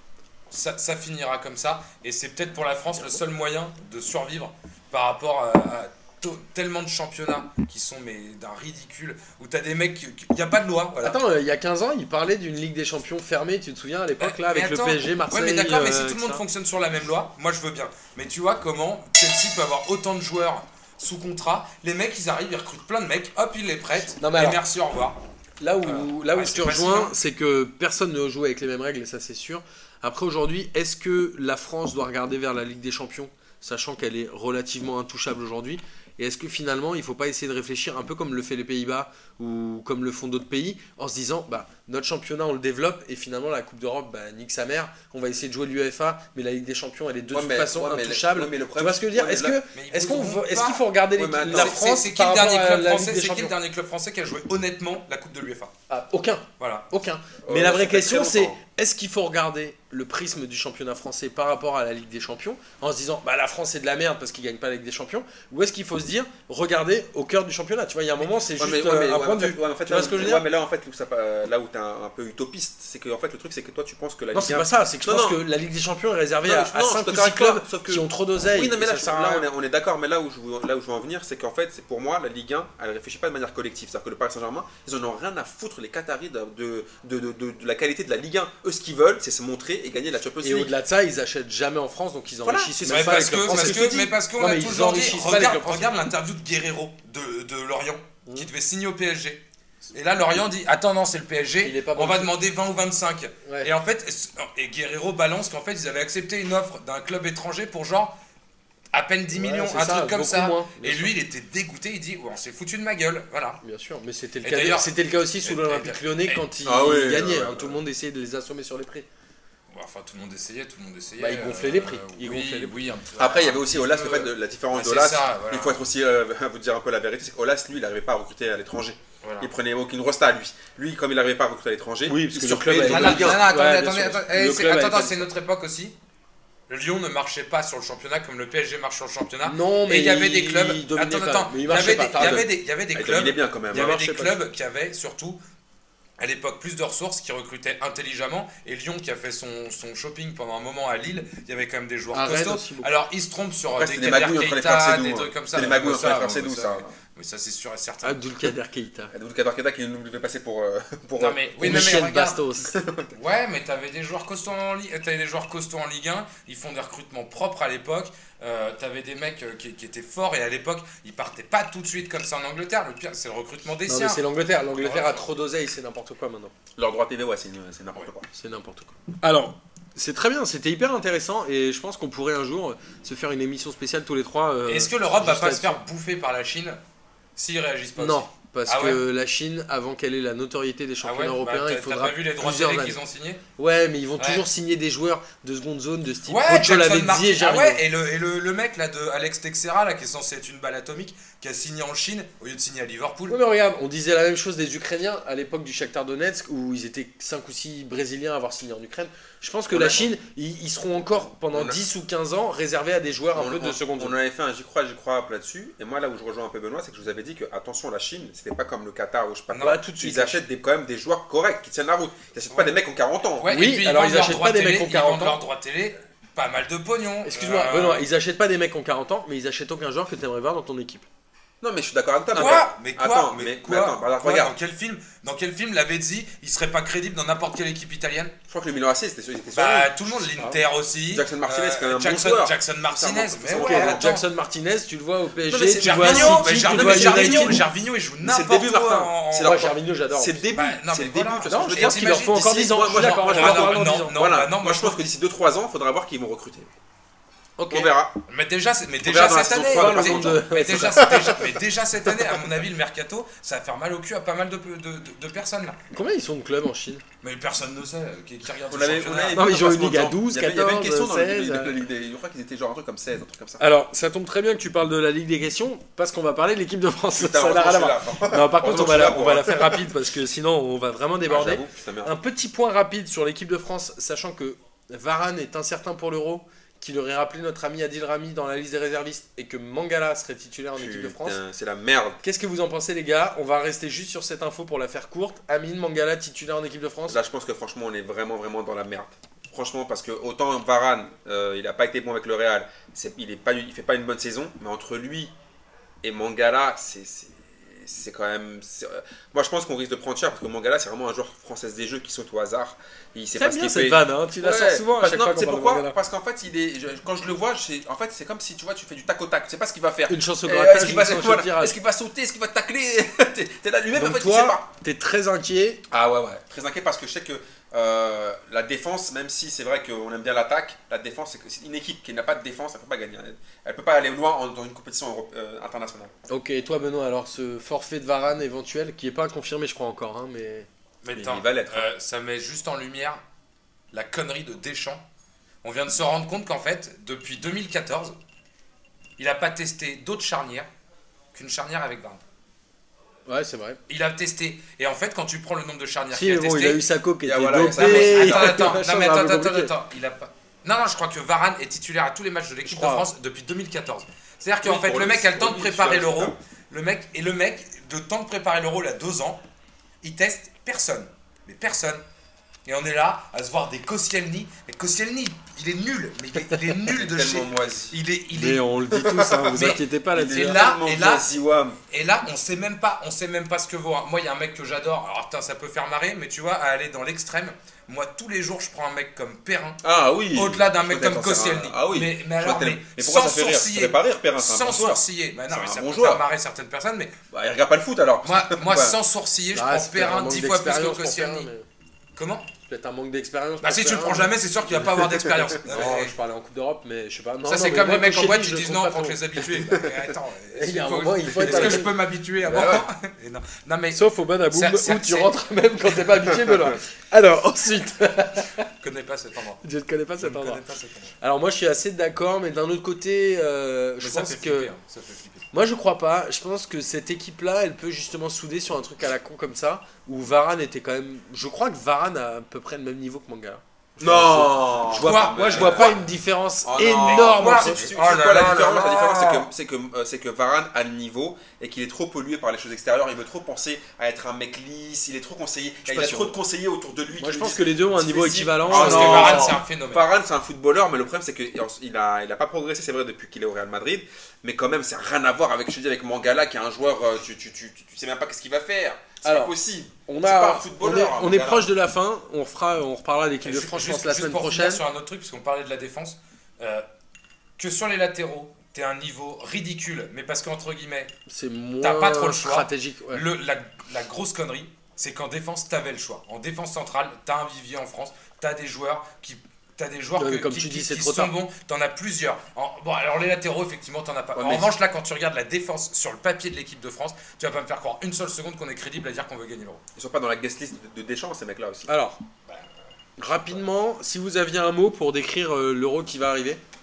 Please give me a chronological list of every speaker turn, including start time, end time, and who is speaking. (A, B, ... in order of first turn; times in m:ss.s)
0:00.5-0:11.2 A
0:11.0-0:16.4 B
0:14.2-0:25.2 A
0:24.2-0:24.6 B
0:25.6-0:53.5 B
0:25.8-0:27.1 A
0:47.3-0:49.6 C
0:49.7-0:50.9 A
0:51.2-0:51.8 C
0:51.4-0:55.7 A
0:55.9-1:10.4 B
0:56.6-0:56.9 A
0:57.4-0:58.6 C
1:08.5-1:15.4 C
1:14.3-1:19.4 B
1:16.4-1:30.7 C
1:30.4-1:35.9 B
1:32.4-1:34.1 C
1:32.8-1:39.4 A
1:39.9-1:48.2 A
1:41.6-1:42.3 B
1:48.9-1:53.6 A
1:49.3-1:51.1 B
1:53.6-1:59.0 B
1:54.4-1:56.5 A
1:56.6-1:57.8 C
1:59.7-2:05.8 A
2:01.2-2:02.7 B
2:03.2-2:13.5 C
2:09.2-2:09.5 A
2:12.1-2:15.3 B
2:12.9-2:15.9 A
2:16.7-2:25.4 A
2:19.4-2:22.4 B
2:22.2-2:24.1 C
2:23.7-2:24.3 B
2:26.2-2:38.2 A
2:32.1-2:32.9 B
2:33.7-2:36.9 C
2:38.0-2:39.1 B
2:39.1-2:41.9 C
2:41.2-2:42.4 A
2:41.6-2:42.8 B
2:42.6-2:43.1 C
2:43.1-2:54.2 A
2:53.9-2:56.5 B
2:54.8-2:55.2 A
2:56.8-2:58.3 C
2:58.3-3:05.8 B
3:04.7-3:06.8 A
3:07.4-3:09.0 A
3:08.0-3:13.0 B
3:11.0-3:13.4 A
3:13.6-3:17.8 B
3:14.2-3:14.4 A
3:16.3-3:23.4 A
3:23.3-3:34.1 B
3:29.7-3:30.0 C
3:31.5-3:31.8 C
3:33.3-3:43.5 C
3:39.5-3:39.8 A
3:39.5-3:40.4 B
3:43.4-3:48.0 A
3:43.5-3:45.4 B
3:47.2-3:51.0 B
3:51.6-3:54.5 C
3:52.3-3:58.3 A
3:58.5-4:00.1 C
3:59.5-4:04.2 A
4:00.3-4:00.6 B
4:01.1-4:04.2 C
4:03.5-4:07.6 B
4:05.4-4:07.6 C
4:05.7-4:09.7 A
4:08.2-4:16.7 C
4:09.4-4:10.4 B
4:10.5-4:15.0 A
4:11.4-4:14.2 B
4:17.6-4:17.9 B
4:17.7-4:18.2 C
4:18.3-4:25.8 A
4:19.0-4:21.4 C
4:19.5-4:21.3 B
4:25.9-4:27.0 B
4:27.2-4:29.4 A
4:28.6-4:33.6 C
4:29.3-4:31.8 B
4:33.6-4:51.4 B
4:37.1-4:39.9 C
4:41.3-4:42.1 C
4:50.8-4:52.2 C
4:52.2-4:57.2 B
4:57.1-5:05.3 C
5:06.0-5:24.6 C
5:13.4-5:16.0 B
5:20.1-5:21.7 B
5:23.9-5:25.8 B
5:25.9-5:36.1 C
5:36.3-5:40.7 B
5:41.0-5:43.2 A
5:41.1-5:41.9 C
5:43.9-5:45.0 A
5:45.6-5:48.2 A
5:49.2-5:50.7 A
5:51.3-5:52.2 A
5:53.3-5:53.8 B
5:53.9-5:56.8 A
5:56.1-5:59.7 B
5:57.2-5:58.8 C
5:57.7-6:09.4 A
6:02.7-6:03.1 B
6:04.6-6:06.4 C
6:10.0-6:12.0 A
6:12.6-6:18.7 A
6:16.9-6:18.0 C
6:18.3-6:20.6 B
6:19.0-6:21.8 C
6:19.5-6:21.3 A
6:21.9-6:29.8 A
6:29.8-6:36.2 C
6:30.3-6:37.2 A
6:37.3-6:39.0 C
6:38.2-6:41.5 A
6:39.5-6:41.6 B
6:42.2-6:42.5 A
6:42.6-6:49.2 B
6:43.6-6:46.1 A
6:45.3-6:45.9 C
6:47.4-6:55.4 A
6:49.6-6:49.9 C
6:50.5-6:51.9 B
6:51.4-6:51.9 C
6:52.4-6:52.8 C
6:53.9-6:58.7 B
6:58.6-6:59.6 A
6:59.6-7:00.6 B
7:00.2-7:01.1 A
7:01.2-7:04.7 B
7:04.0-7:05.4 A
7:05.5-7:17.9 B
7:14.0-7:16.0 C
7:14.9-7:16.0 A
7:16.6-7:28.0 C
7:16.9-7:19.4 A
7:25.9-7:26.4 B
7:27.2-7:29.6 B
7:28.0-7:30.0 A
7:28.7-7:41.7 C
7:39.2-7:39.5 B
7:40.1-7:44.8 B
7:43.4-7:46.8 A
7:47.6-7:51.1 A
7:51.3-7:53.2 B
7:51.8-8:09.8 A
8:00.2-8:01.3 B
8:04.3-8:04.7 C
8:10.0-8:11.9 C
8:11.9-8:12.2 B
8:13.2-8:16.6 B